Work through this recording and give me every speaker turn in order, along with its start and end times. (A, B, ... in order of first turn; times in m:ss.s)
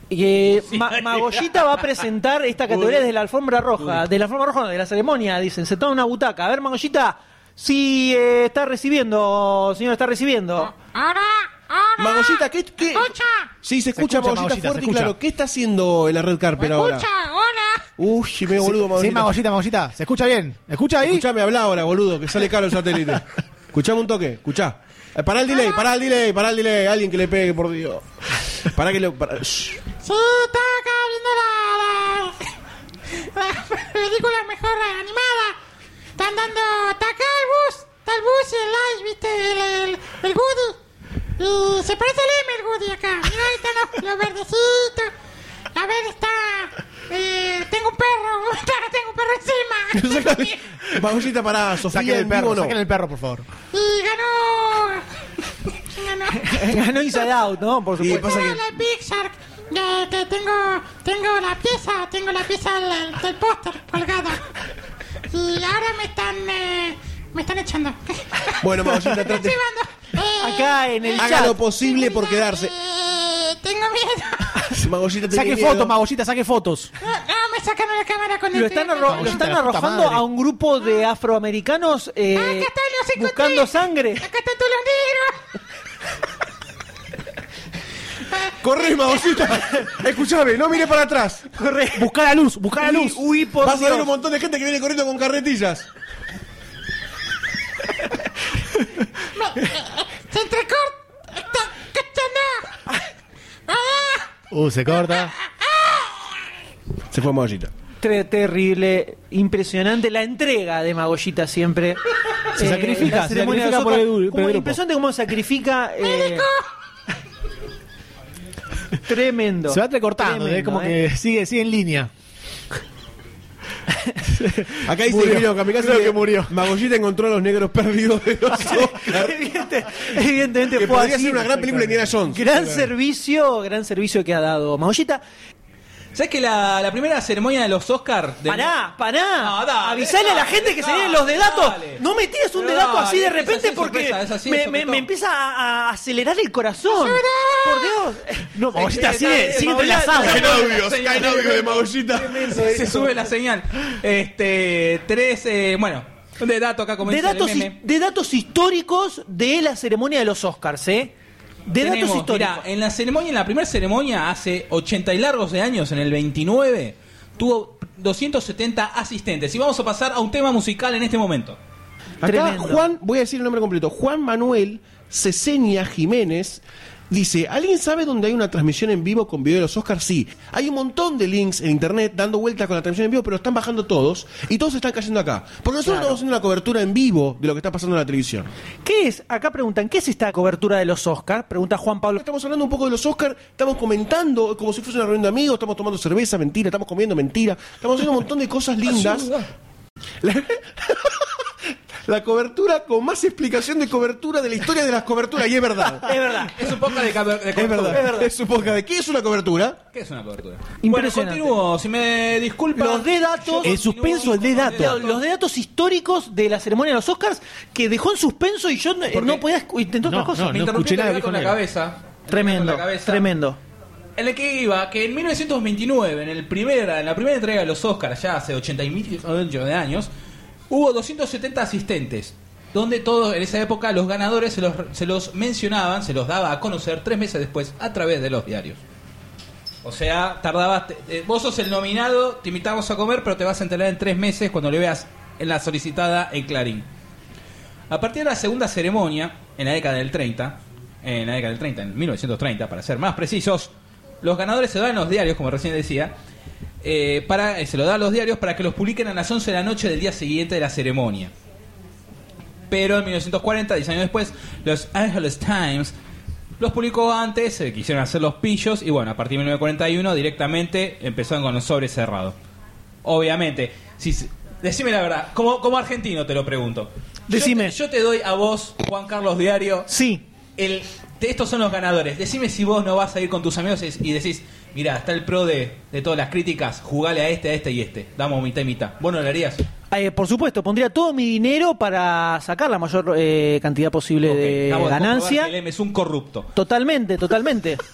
0:00.1-0:10.7 A
0:00.7-0:01.6 B
0:02.7-0:03.0 B
0:03.8-0:04.0 B
0:10.7-0:13.5 C
0:12.0-0:17.1 D
0:13.9-0:15.1 E
0:16.6-0:17.9 C
0:18.0-0:19.3 D
0:18.6-0:21.2 E
0:21.0-0:28.0 D
0:25.5-0:25.8 C
0:28.6-0:29.8 D
0:30.0-0:32.5 C
0:33.2-0:35.6 C
0:36.2-0:40.8 C
0:41.4-0:45.1 C
0:45.7-0:50.7 C
0:49.9-0:52.8 D
0:51.8-0:53.4 E
0:53.7-0:55.1 C
0:55.7-0:56.7 C
0:56.4-0:58.4 A
0:58.0-0:58.8 D
0:58.1-1:04.4 C
1:05.3-1:14.8 C
1:08.6-1:09.6 D
1:10.4-1:11.6 A
1:11.2-1:12.7 D
1:14.7-1:15.9 D
1:15.3-1:16.9 E
1:17.0-1:19.5 C
1:18.5-1:24.3 A
1:19.1-1:20.2 E
1:22.3-1:25.4 C
1:28.6-1:31.5 D
1:31.6-1:32.1 A
1:31.9-1:33.2 E
1:32.8-1:34.1 A
1:33.6-1:35.9 D
1:39.3-1:42.8 C
1:43.7-1:44.3 C
1:44.5-1:45.3 E
1:45.0-1:46.4 C
1:47.1-1:47.7 D
1:48.0-1:56.5 A
1:52.5-1:54.8 E
1:56.0-1:56.6 C
1:59.0-2:01.0 A
1:59.7-2:02.1 E
2:04.2-2:06.6 E
2:04.8-2:09.4 D
2:08.6-2:15.2 A
2:10.7-2:12.4 D
2:16.1-2:18.7 B
2:18.5-2:31.0 A
2:19.4-2:22.0 B
2:22.5-2:25.1 B
2:26.9-2:28.0 C
2:28.5-2:30.5 E
2:29.1-2:37.8 B
2:30.2-2:32.8 D
2:32.2-2:33.1 A
2:37.0-2:41.1 A
2:41.7-2:42.6 A
2:41.7-2:51.6 B
2:52.2-3:08.5 D
2:52.2-2:52.8 A
3:05.8-3:06.2 A
3:08.8-3:12.2 A
3:12.2-3:19.4 D
3:20.2-3:21.3 D
3:22.0-3:26.2 D
3:26.0-3:26.6 A
3:26.5-3:28.1 B
3:27.5-3:29.8 D
3:27.9-3:28.3 A
3:29.9-3:35.2 B
3:30.8-3:31.6 A
3:32.7-3:40.6 A
3:33.6-3:35.0 E
3:39.1-3:39.4 B
3:40.0-3:41.6 E
3:40.5-3:43.2 B
3:42.3-3:43.6 A
3:44.2-3:50.1 B
3:50.7-3:58.8 B
3:59.8-4:06.9 B
4:07.9-4:16.1 B
4:16.8-4:21.3 B
4:22.7-4:25.9 B
4:26.6-4:32.4 B
4:33.0-4:39.9 B
4:37.3-4:37.8 A
4:39.9-4:40.2 A
4:40.6-4:49.6 B
4:49.9-4:55.5 A
4:54.2-4:56.5 B
4:56.5-4:57.8 A